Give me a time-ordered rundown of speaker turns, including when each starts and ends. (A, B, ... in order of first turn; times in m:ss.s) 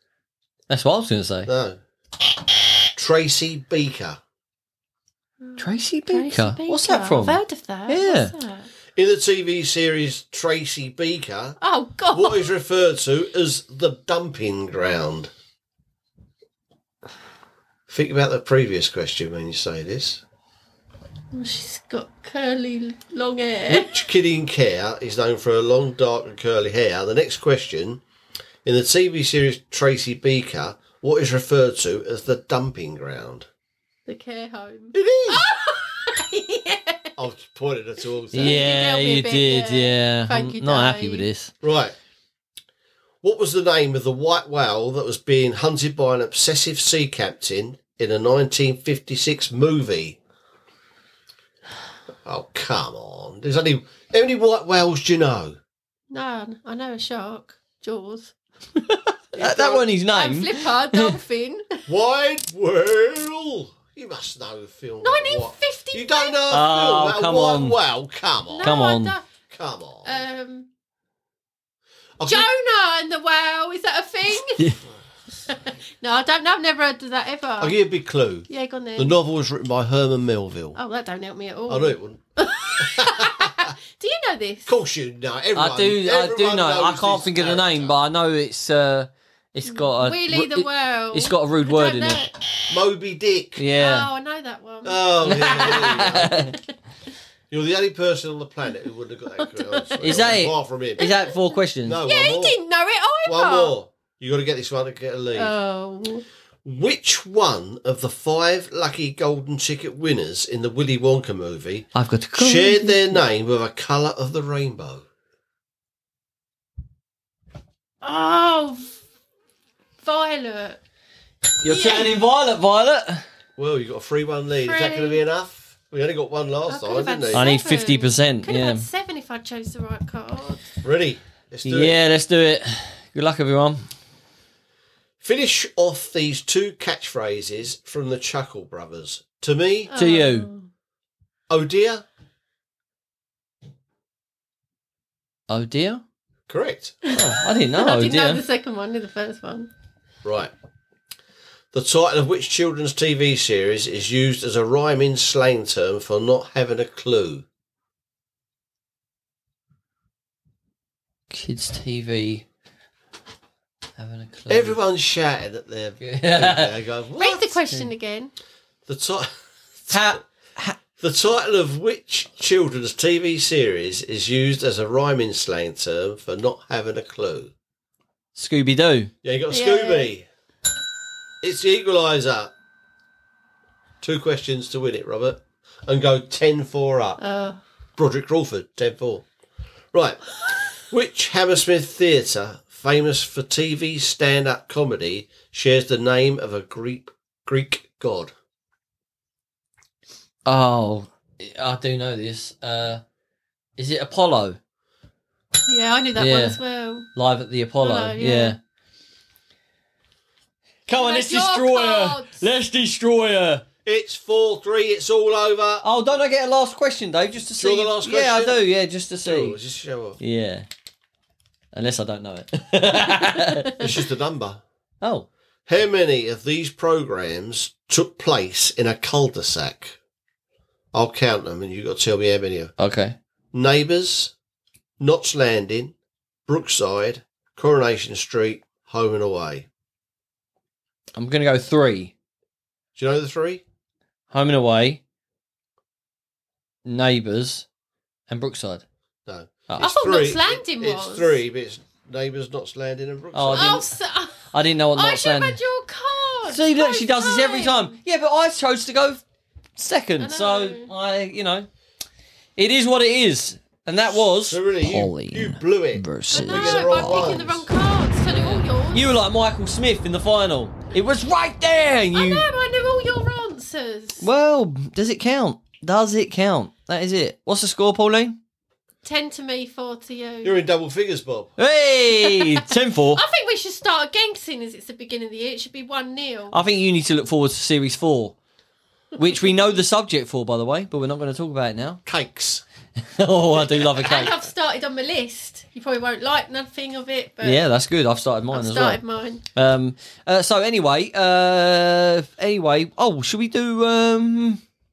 0:00.7-0:01.5 A
0:01.4-0:01.8 B
0:02.9-0:04.2 B
0:05.4-0:08.7 C
0:05.6-0:08.3 A
0:09.0-0:11.6 B
0:11.6-0:12.5 C
0:12.1-0:15.3 B
0:17.9-0:20.2 B
0:21.3-0:24.0 C
0:23.7-0:28.0 B
0:28.6-0:33.5 B
0:34.1-0:37.1 C
0:34.9-0:35.4 B
0:37.2-0:38.7 B
0:38.3-0:41.5 A
0:38.3-0:41.3 C
0:41.6-0:41.9 B
0:43.2-0:50.2 B
0:52.2-0:55.6 B
0:56.1-0:58.3 C
0:58.9-1:01.2 A
0:59.4-1:01.8 C
1:01.9-1:08.8 B
1:05.0-1:06.4 C
1:06.5-1:07.8 A
1:08.5-1:09.2 C
1:08.6-1:09.1 A
1:09.5-1:10.2 B
1:10.0-1:10.7 C
1:12.2-1:12.5 B
1:12.2-1:14.8 C
1:15.5-1:17.8 C
1:17.6-1:20.8 B
1:18.5-1:19.2 C
1:20.7-1:24.7 C
1:21.7-1:22.2 B
1:22.8-1:23.7 B
1:24.6-1:27.9 B
1:25.6-1:32.2 A
1:29.7-1:32.3 C
1:32.7-1:33.6 B
1:33.6-1:34.1 A
1:33.8-1:36.5 C
1:34.8-1:36.4 B
1:35.2-1:36.5 A
1:37.5-1:41.1 B
1:39.4-1:40.4 C
1:40.0-1:42.0 A
1:41.0-1:43.7 C
1:41.8-1:42.6 B
1:43.2-1:45.5 B
1:45.3-1:46.2 C
1:46.6-1:55.0 B
1:51.9-1:53.1 A
1:58.0-1:58.9 C
2:00.0-2:00.8 C
2:01.6-2:03.2 A
2:01.6-2:02.1 C
2:03.6-2:07.5 B
2:04.6-2:05.2 C
2:06.7-2:10.7 C
2:07.3-2:08.8 A
2:10.8-2:12.0 B
2:11.6-2:13.8 A
2:15.2-2:19.9 B
2:19.9-2:20.7 C
2:19.9-2:20.5 A
2:21.5-2:22.0 B
2:25.5-2:26.0 A
2:26.5-2:27.0 B
2:27.0-2:29.7 C
2:27.1-2:28.4 A
2:30.2-2:30.5 B
2:31.7-2:37.4 B
2:41.3-2:42.4 A
2:44.0-2:44.8 A
2:44.5-2:47.6 B
2:46.0-2:46.8 A
2:47.2-2:48.3 C
2:48.9-2:49.3 B
2:49.8-2:50.1 B
2:49.9-2:50.8 A
2:51.0-2:57.5 B
2:58.4-2:59.1 A
2:59.2-3:00.2 B
2:59.5-3:00.1 C
3:01.4-3:02.5 B
3:04.0-3:07.2 B
3:07.2-3:07.6 C
3:08.0-3:09.2 B
3:09.9-3:18.3 B
3:20.4-3:23.0 A
3:23.8-3:24.6 A
3:25.7-3:27.1 C
3:26.2-3:26.6 A
3:27.1-3:28.6 A
3:27.8-3:28.6 C
3:30.9-3:33.6 A
3:30.9-3:32.4 C
3:33.8-3:35.8 B
3:35.8-3:39.6 A
3:37.6-3:38.6 B
3:39.2-3:40.2 B
3:40.2-3:40.7 A
3:41.7-3:43.9 A
3:43.8-3:44.6 B
3:45.0-3:45.3 A
3:45.7-3:50.0 B
3:50.9-3:52.7 B
3:52.8-3:53.2 A
3:53.5-3:54.3 B
3:55.0-3:55.9 B
3:56.5-3:59.7 B
4:01.2-4:02.1 A
4:03.0-4:03.6 B
4:04.3-4:05.0 A
4:06.8-4:07.6 A
4:08.3-4:08.8 A
4:09.2-4:13.8 B
4:09.8-4:11.4 C
4:13.3-4:13.9 A
4:13.5-4:17.9 C
4:14.5-4:15.6 A
4:16.4-4:19.2 A
4:19.8-4:21.7 A
4:20.2-4:20.9 C
4:22.6-4:27.4 A
4:24.1-4:27.6 B
4:26.3-4:29.1 C
4:28.3-4:32.4 A
4:32.1-4:34.2 C
4:34.2-4:38.4 A
4:39.0-4:40.6 C
4:40.4-4:41.5 B
4:41.6-4:43.2 A
4:42.2-4:46.6 C
4:46.5-4:48.3 A
4:49.2-4:52.0 A
4:52.0-4:52.6 B
4:53.1-4:54.4 A
4:53.6-4:53.8 B
4:54.0-4:57.6 C
4:57.4-4:59.0 A
4:58.5-4:59.4 C
4:59.5-5:04.6 A